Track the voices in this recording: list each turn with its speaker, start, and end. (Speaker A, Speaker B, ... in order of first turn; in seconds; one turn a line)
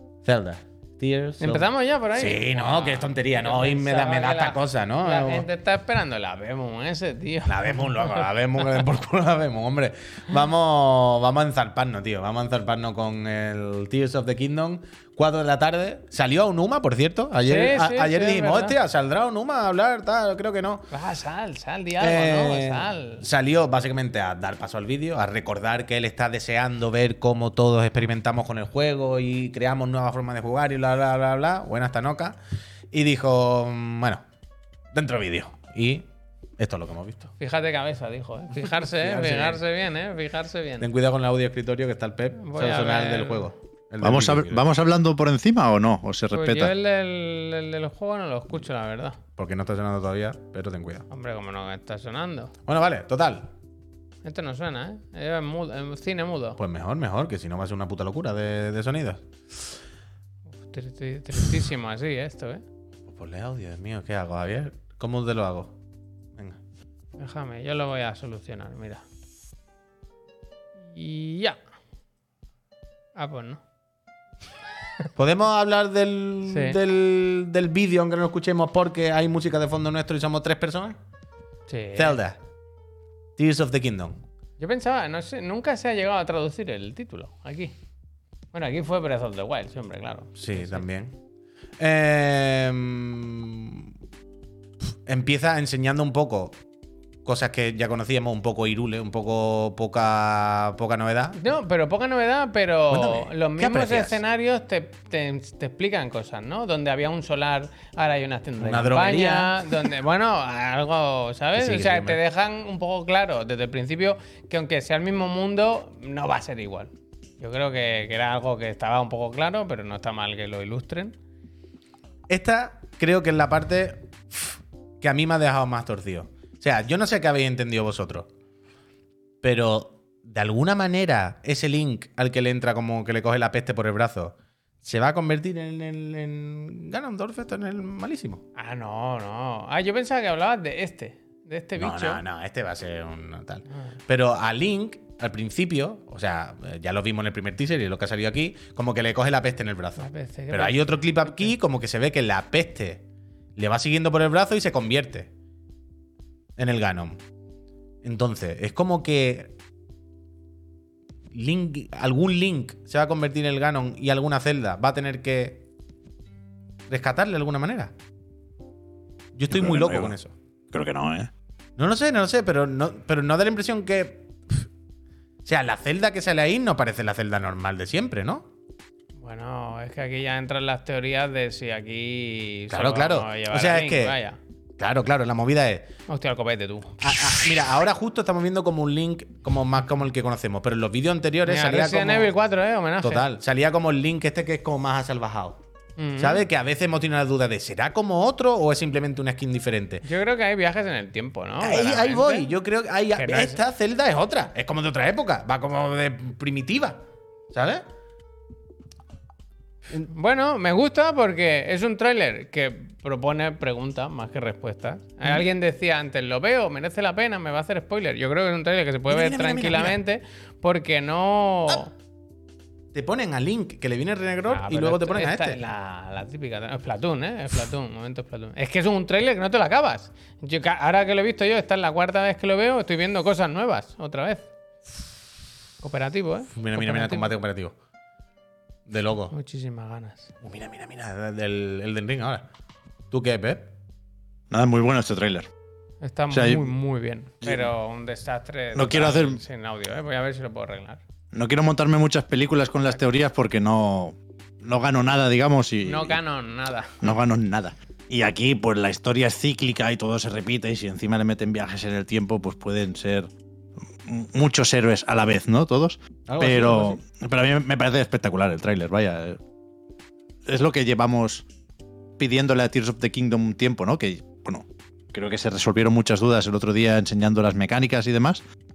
Speaker A: 0.2-5.5
Speaker B: 1.4-8.3
Speaker A: 7.5-20.9
Speaker B: 17.4-18.8
Speaker B: 20.9-23.2
Speaker A: 22.0-32.4
Speaker A: 32.9-34.2
Speaker A: 34.9-36.1
Speaker A: 36.6-37.2
Speaker B: 37.4-40.9
Speaker A: 38.7-39.6
Speaker A: 40.8-44.6
Speaker B: 42.4-43.5
Speaker C: 44.0-46.7
Speaker B: 46.3-49.2
Speaker A: 49.4-51.0
Speaker B: 51.1-52.5
Speaker A: 52.7-53.5
Speaker B: 54.2-56.6
Speaker A: 56.6-59.2
Speaker B: 60.6-62.6
Speaker A: 63.1-65.7
Speaker B: 67.2-69.0
Speaker B: 70.8-71.6
Speaker B: 73.2-73.6
Speaker A: 75.2-81.0
Speaker B: 76.5-76.8
Speaker B: 81.7-82.2
Speaker A: 82.0-82.4
Speaker A: 83.4-84.2
Speaker B: 84.6-87.7
Speaker B: 88.5-90.8
Speaker A: 90.4-91.1
Speaker A: 91.8-93.9
Speaker A: 95.0-96.5
Speaker A: 97.2-101.4
Speaker B: 101.3-121.1
Speaker A: 102.9-104.2
Speaker A: 108.6-109.7
Speaker A: 111.5-112.2
Speaker A: 122.3-128.3
Speaker A: 129.4-138.4
Speaker B: 138.6-142.2
Speaker A: 141.8-153.0
Speaker B: 150.0-151.5
Speaker A: 153.6-155.3
Speaker A: 156.6-157.2
Speaker A: 158.0-159.5
Speaker A: 161.3-165.6
Speaker A: 166.9-167.9
Speaker A: 169.3-170.3
Speaker C: 169.5-170.1
Speaker C: 170.7-171.3
Speaker A: 171.8-174.7
Speaker A: 175.5-178.5
Speaker B: 179.2-184.4
Speaker A: 182.7-184.2
Speaker A: 184.8-185.9
Speaker B: 186.1-187.5
Speaker A: 187.0-192.3
Speaker B: 191.5-193.3
Speaker A: 193.0-195.6
Speaker B: 196.0-196.4
Speaker A: 196.2-200.0
Speaker B: 200.0-202.5
Speaker A: 201.6-207.0
Speaker B: 203.1-203.6
Speaker A: 207.5-207.8
Speaker B: 210.1-221.9
Speaker A: 219.1-220.0
Speaker A: 222.9-225.6
Speaker B: 224.5-234.5
Speaker B: 235.8-237.3
Speaker A: 236.5-237.8
Speaker A: 238.9-239.3
Speaker B: 239.3-240.3
Speaker A: 240.4-242.4
Speaker A: 243.1-243.7
Speaker C: 244.5-245.5
Speaker B: 246.0-251.0
Speaker C: 246.3-246.7
Speaker C: 247.4-247.7
Speaker C: 248.8-249.4
Speaker C: 251.3-256.2
Speaker B: 255.8-257.0
Speaker C: 257.0-263.3
Speaker C: 264.0-269.4
Speaker A: 266.3-267.0
Speaker C: 270.5-271.4
Speaker C: 272.2-278.4